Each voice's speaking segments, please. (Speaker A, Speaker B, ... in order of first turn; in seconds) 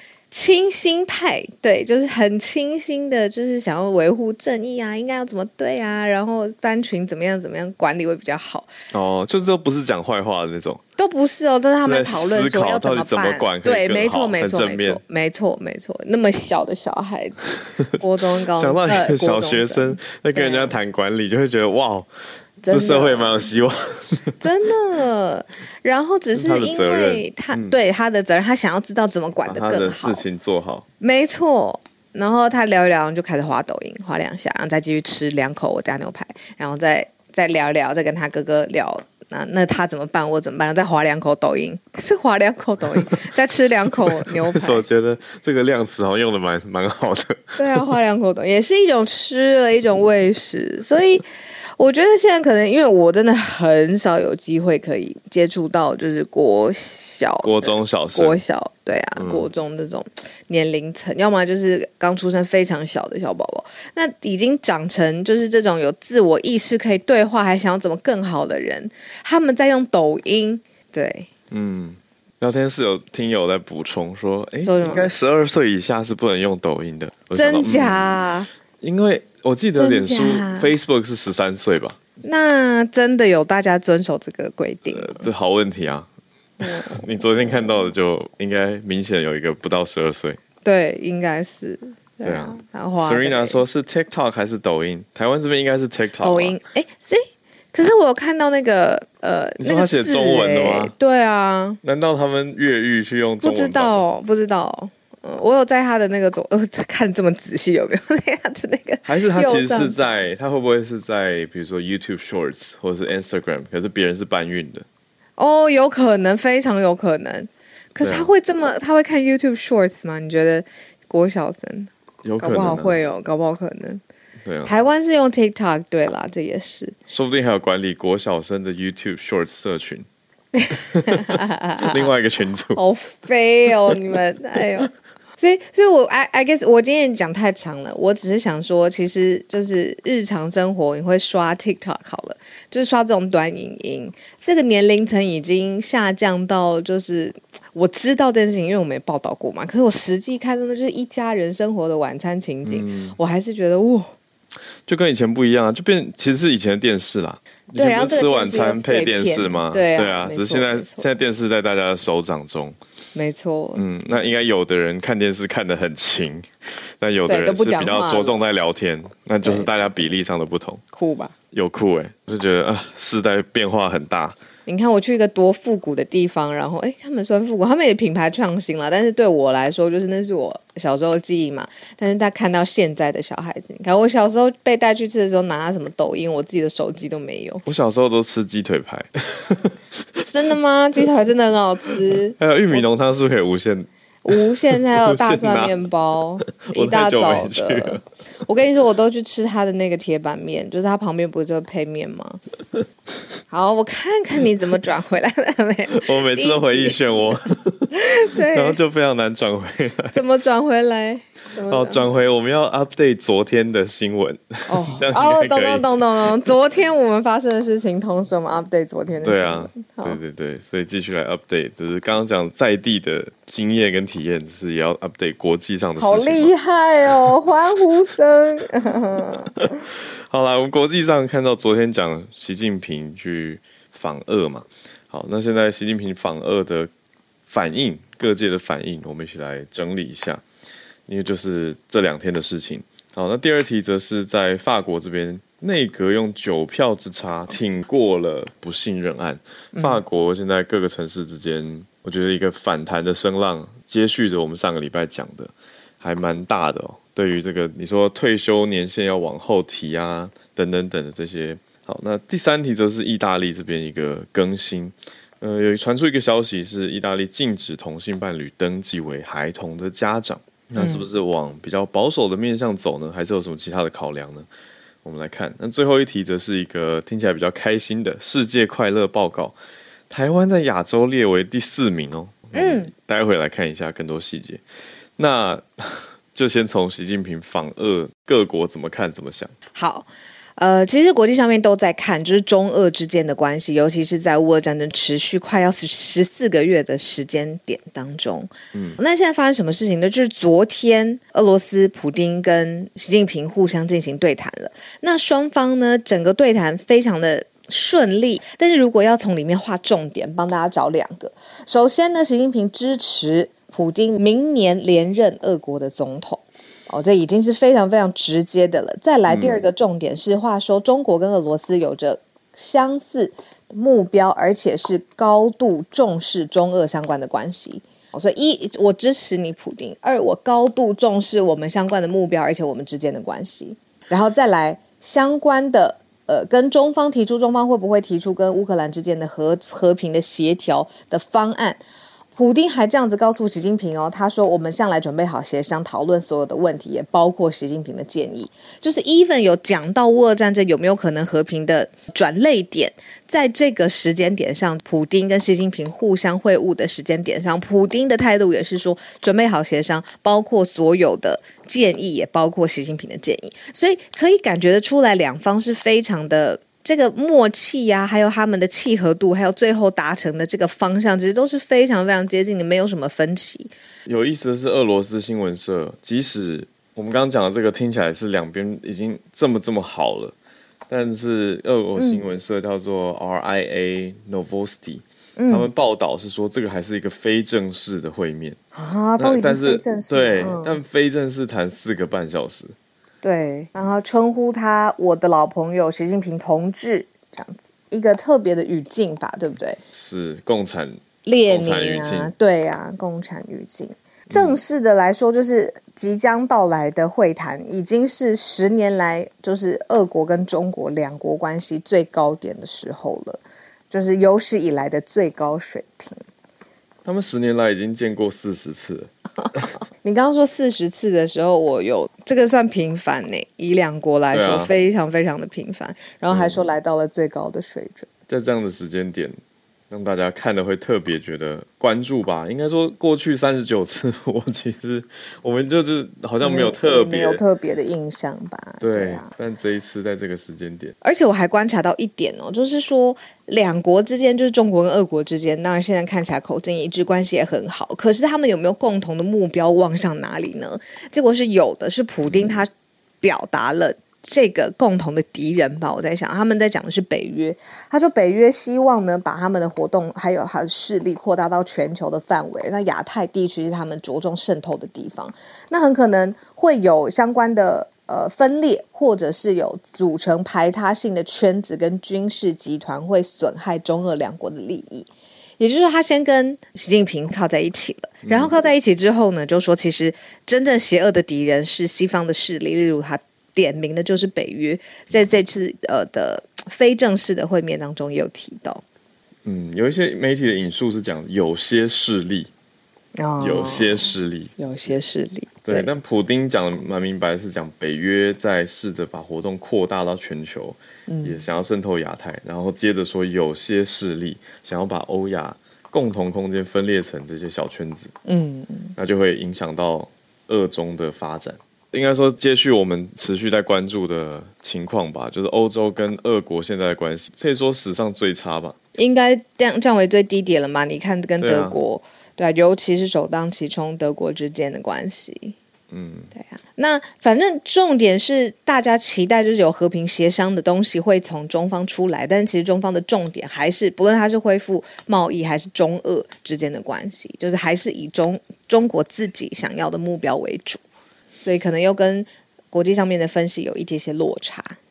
Speaker A: 0.3-8.7, 11.0-20.7, 22.6-23.3, 24.4-30.2, 31.0-44.8, 47.6-51.2, 51.8-71.3, 74.6-75.1, 77.3-78.5, 79.8-80.7, 82.2-85.3, 86.6-87.9, 90.6-93.6, 96.2-101.8, 103.4-110.0, 115.4-124.0, 124.6-127.0, 130.6-132.1, 132.7-154.1, 157.8-161.1, 163.1-163.8, 167.3-168.4, 169.4-169.7, 170.9-171.3, 174.7-187.6, 190.2-192.8, 194.2-202.4, 203.5-207.1, 207.9-208.8, 210.1-212.0, 214.7-220.2, 226.0-229.8, 249.7-250.0, 270.8-271.1, 282.5-282.9, 289.7-341.8, 342.3-373.7, 381.9-382.2, 385.4-385.7, 388.7-390.8, 393.2-399.8, 401.2-416.2, 420.0-428.1, 436.4-439.3, 441.0-452.7, 453.2-488.8, 493.2-495.9, 501.1-501.4, 508.2-508.9, 519.0-525.5, 526.3-540.8, 541.4-544.8
Speaker B: 8.9-10.8, 11.8-15.0, 18.5-24.4, 26.3-27.8, 29.5-30.9, 44.1-47.8, 57.4-58.4, 59.1-59.5, 71.5-78.1, 78.8-82.0, 84.9-86.1, 86.6-90.4, 92.2-96.6, 99.6-100.9, 101.8-104.0, 109.0-114.8, 118.0-118.3, 122.2-123.0, 124.4-124.7, 127.1-130.1, 130.7-132.8, 152.6-153.2, 154.8-162.8, 163.7-170.8, 171.5-174.4, 187.7-190.2, 192.3-195.8, 196.5-198.0, 205.9-210.2, 211.7-216.5, 219.2-226.5, 227.1-227.3, 229.6-236.9, 237.5-240.4, 241.1-274.5, 275.0-279.6, 280.1-284.6, 285.2-289.5, 298.7-299.0, 319.3-319.6, 374.1-380.3, 380.9-388.6, 389.2-392.7, 399.9-402.3, 404.3-404.6, 417.0-419.7, 424.3-424.7, 426.3-426.6, 428.3-429.4, 429.9-437.4, 438.8-440.9, 452.2-452.5, 478.2-478.5, 489.4-492.5, 493.4-494.5, 495.6-508.1, 508.9-518.8, 521.4-521.8, 525.9-526.3